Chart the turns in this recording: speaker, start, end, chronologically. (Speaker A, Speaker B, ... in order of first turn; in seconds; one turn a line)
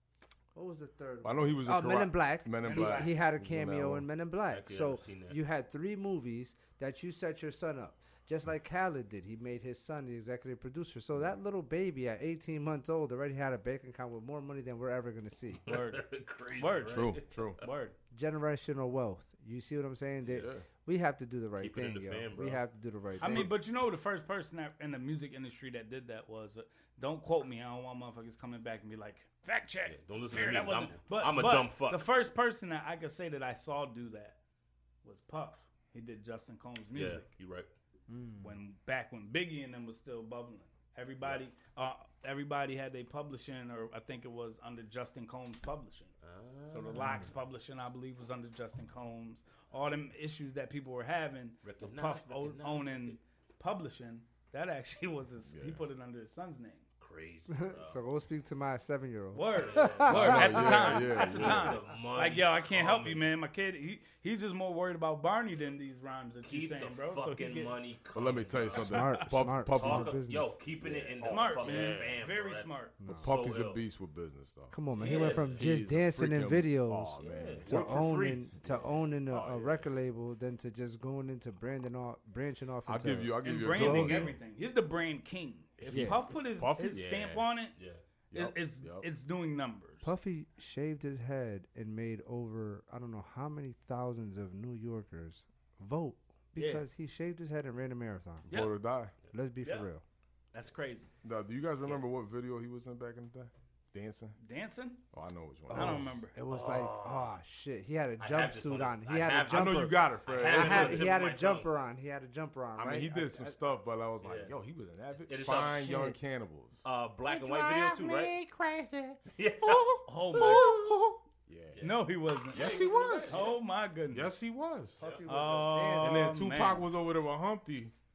Speaker A: 0.6-15.6
Speaker B: 1.2-4.1
Speaker C: 2.6-3.1
Speaker D: 4.5-5.4
Speaker D: 15.7-17.7
Speaker C: 15.7-17.9
Speaker B: 16.9-17.6
Speaker A: 18.1-23.5
Speaker D: 20.2-20.5
Speaker B: 20.4-20.6
Speaker D: 21.6-22.6
Speaker C: 23.2-34.4
Speaker D: 29.9-32.0
Speaker C: 35.0-37.3
Speaker D: 36.9-37.7
Speaker A: 38.1-38.6
Speaker C: 38.4-46.1
Speaker D: 46.2-47.3
Speaker C: 46.7-56.8
Speaker A: 47.0-47.2
Speaker D: 51.6-53.2
Speaker B: 55.5-55.8
Speaker D: 57.0-58.0
Speaker A: 57.5-60.9
Speaker C: 59.3-67.7
Speaker D: 59.6-63.2
Speaker B: 60.1-61.8
Speaker D: 66.4-73.8
Speaker B: 68.1-70.2
Speaker A: 68.7-70.5
Speaker B: 70.8-72.0
Speaker C: 71.2-72.9
Speaker A: 73.0-73.3
Speaker B: 73.2-78.0
Speaker A: 74.7-77.2
Speaker D: 75.0-75.7
Speaker D: 77.2-78.9
Speaker A: 77.7-84.3
Speaker B: 79.3-79.9
Speaker B: 82.8-84.3
Speaker C: 83.4-87.7
Speaker B: 85.8-87.3
Speaker A: 85.9-86.2
Speaker D: 86.9-88.0
Speaker B: 88.3-89.1
Speaker C: 88.3-90.1
Speaker A: 90.0-98.5
Speaker C: 96.6-96.9
Speaker C: 98.5-98.8
Speaker B: 98.5-99.1
Speaker A: 99.3-100.0
Speaker C: 99.6-99.9
Speaker C: 100.5-101.1
Speaker B: 101.2-104.4
Speaker C: 104.4-105.0
Speaker B: 105.1-106.2
Speaker A: 105.7-113.8
Speaker C: 105.7-106.4
Speaker D: 106.5-107.4
Speaker D: 108.2-111.7
Speaker B: 109.5-111.2
Speaker B: 112.8-121.8
Speaker D: 114.2-114.5
Speaker D: 115.3-116.2
Speaker D: 116.8-118.4
Speaker D: 119.3-120.9
Speaker C: 120.1-120.8
Speaker D: 121.7-123.6
Speaker C: 121.8-122.7
Speaker B: 122.5-123.5
Speaker C: 123.3-124.3
Speaker B: 124.1-125.0
Speaker A: 125.0-126.4
Speaker D: 125.0-125.5
Speaker C: 125.3-126.9
Speaker B: 126.0-127.9